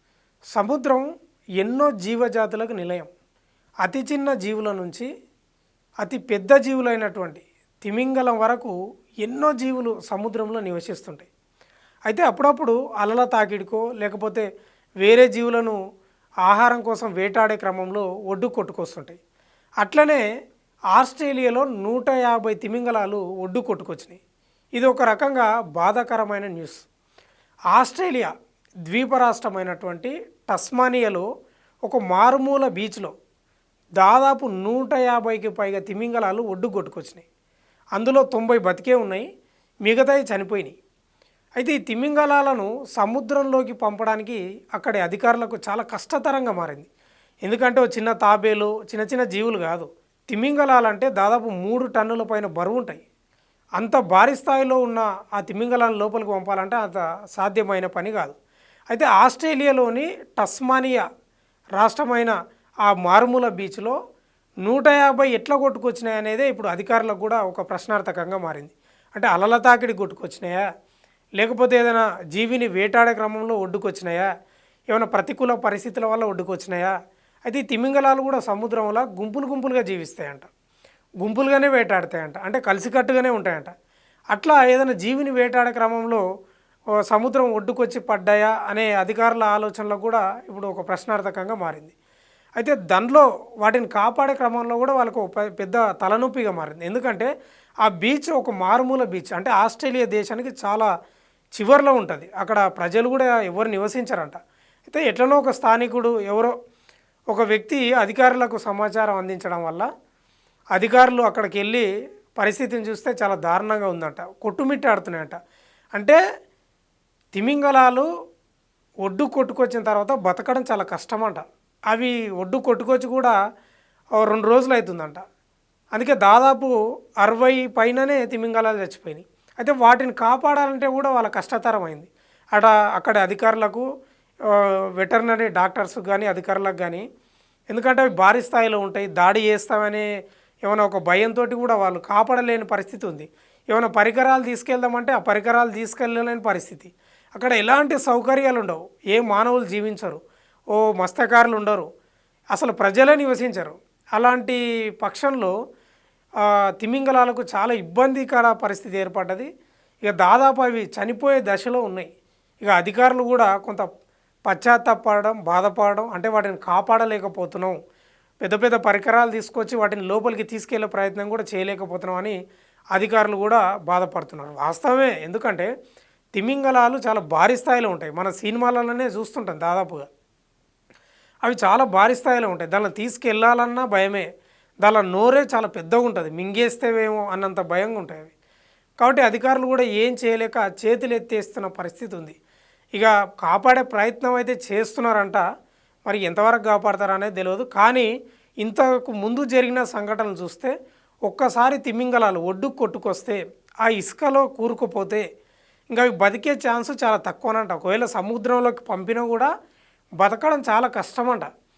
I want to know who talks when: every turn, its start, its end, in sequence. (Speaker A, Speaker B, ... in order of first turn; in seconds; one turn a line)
Speaker A: 0.5-1.1
Speaker A: 1.6-3.1
Speaker A: 3.8-5.1
Speaker A: 6.0-11.3
Speaker A: 12.1-14.4
Speaker A: 15.0-15.8
Speaker A: 16.4-19.2
Speaker A: 19.8-20.2
Speaker A: 20.9-24.2
Speaker A: 24.7-26.9
Speaker A: 27.7-28.3
Speaker A: 28.9-31.2
Speaker A: 31.8-33.1
Speaker A: 34.0-37.2
Speaker A: 37.9-39.2
Speaker A: 39.8-40.7
Speaker A: 41.6-46.9
Speaker A: 47.4-53.0
Speaker A: 53.8-58.3
Speaker A: 58.9-61.0
Speaker A: 61.8-62.3
Speaker A: 62.9-64.0
Speaker A: 64.6-70.6
Speaker A: 71.4-74.3
Speaker A: 74.9-76.9
Speaker A: 77.5-80.5
Speaker A: 81.2-83.7
Speaker A: 84.3-86.2
Speaker A: 87.1-91.9
Speaker A: 92.6-97.3
Speaker A: 97.8-100.9
Speaker A: 101.5-106.5
Speaker A: 107.3-109.9
Speaker A: 110.7-111.9
Speaker A: 112.4-115.4
Speaker A: 115.9-116.2
Speaker A: 117.3-118.1
Speaker A: 119.0-123.3
Speaker A: 124.2-125.2
Speaker A: 125.9-133.8
Speaker A: 134.5-137.0
Speaker A: 137.7-140.1
Speaker A: 140.6-150.2
Speaker A: 150.7-151.9
Speaker A: 152.5-155.5
Speaker A: 156.8-159.5
Speaker A: 160.0-162.1
Speaker A: 162.6-163.9
Speaker A: 164.5-167.8
Speaker A: 168.4-172.4
Speaker A: 172.9-175.7
Speaker A: 176.3-180.1
Speaker A: 181.4-184.3
Speaker A: 184.8-188.3
Speaker A: 189.0-192.3
Speaker A: 192.9-195.4
Speaker A: 196.1-198.1
Speaker A: 198.6-200.7
Speaker A: 201.3-205.2
Speaker A: 205.9-209.5
Speaker A: 210.2-211.5